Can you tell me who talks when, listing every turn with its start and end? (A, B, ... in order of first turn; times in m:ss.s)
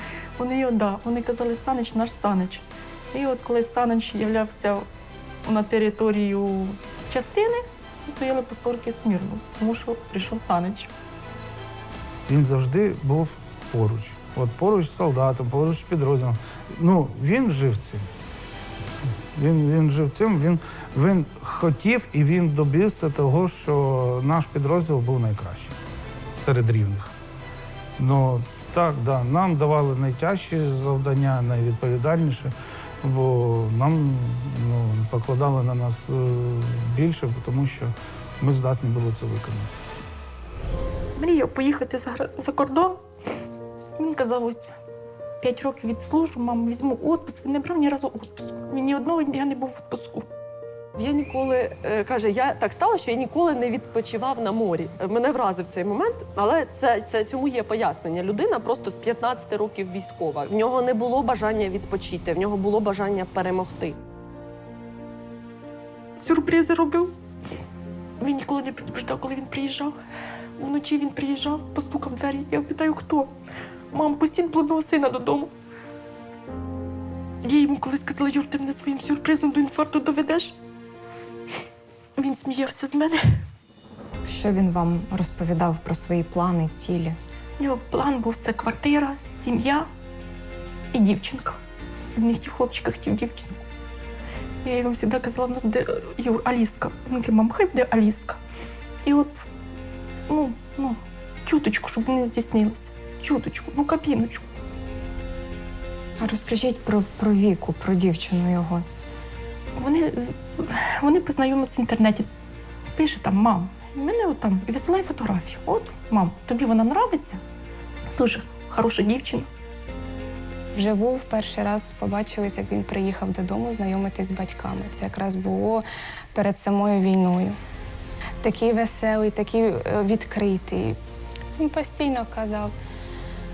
0:00.4-0:04.9 A
0:05.4-0:10.9 A
0:12.3-0:18.1 B
0:19.3-0:25.8 B
0:26.4-0:27.1 B
0:28.0-0:39.7 B
0:41.2-0:43.0 A
0:44.0-0:44.7 A
0:45.4-0:50.2 A
0:51.0-1:04.0 C
1:06.2-1:07.1 A
1:08.2-1:10.0 A
1:10.6-1:13.3 A
1:13.9-1:15.5 A
1:17.4-1:20.6 A
1:22.2-1:23.4 A
1:24.3-1:27.2 D
1:27.6-1:29.9 A
1:30.9-1:31.6 A
1:32.2-1:33.6 A
1:34.6-1:38.4 A
1:39.0-1:39.4 A
1:40.3-1:44.4 A
1:46.2-1:48.8 D
1:49.8-1:52.3 A
1:53.0-1:57.4 A
1:58.2-1:59.5 A
2:00.7-2:07.6 E
2:08.4-2:11.0 E
2:11.6-2:12.7 E